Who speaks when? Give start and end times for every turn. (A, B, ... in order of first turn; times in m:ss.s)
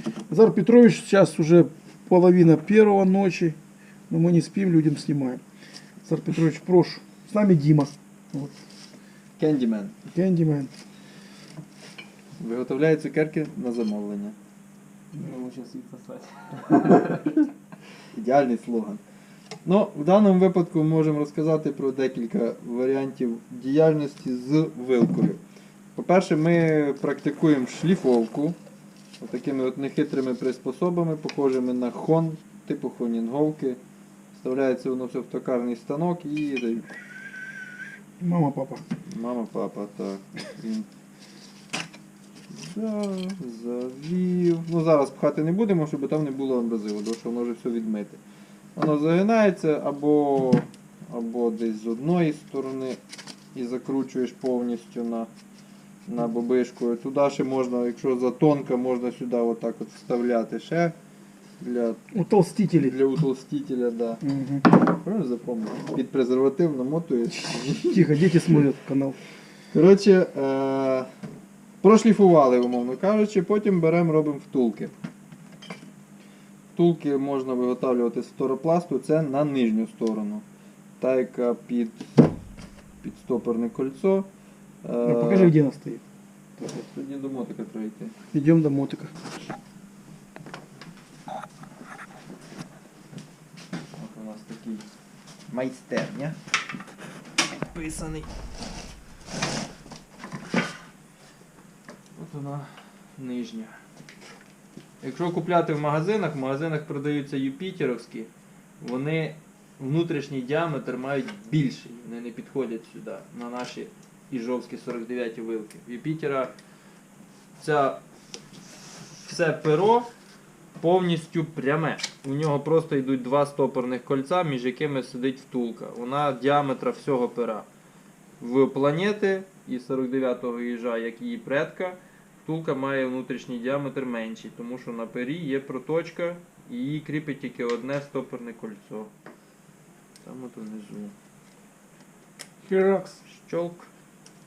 0:00.3-0:03.6 A
0:04.1-0:05.4 A
0:06.0-0:08.5 A
0:09.4-0:09.9 B
0:10.1-0:10.7 A
0:12.4-0:14.4 B
0:15.1-0:17.4 C
0:18.1-0:19.0 B
0:19.6-0:25.4 B
0:25.9-0:28.6 B
0:29.2-0:33.8 B
0:34.3-0:37.0 B
0:38.2-0:38.8 A
0:39.0-0:40.9 B
0:42.5-0:48.2 B
0:48.7-0:53.0 B
0:53.5-0:55.3 B
0:56.0-1:01.0 B
1:01.6-1:02.0 B
1:02.1-1:02.9 A
1:02.8-1:08.6 B
1:04.2-1:04.7 A
1:07.6-1:09.2 A
1:09.7-1:11.1 B
1:11.8-1:14.9 B
1:16.7-1:20.4 B
1:21.0-1:22.2 B
1:23.0-1:24.3 B
1:24.8-1:25.5 B
1:25.0-1:26.0 A
1:26.6-1:28.1 B
1:28.3-1:29.1 A
1:33.9-1:34.8 B
1:35.5-1:36.4 B
1:37.5-1:38.3 B
1:42.1-1:43.8 B
1:45.0-1:56.5 B
1:57.6-1:58.0 B
1:59.1-2:00.1 B
2:00.8-2:07.7 B
2:08.4-2:19.1 B
2:20.2-2:21.1 B
2:22.6-2:23.2 A
2:23.3-2:23.9 B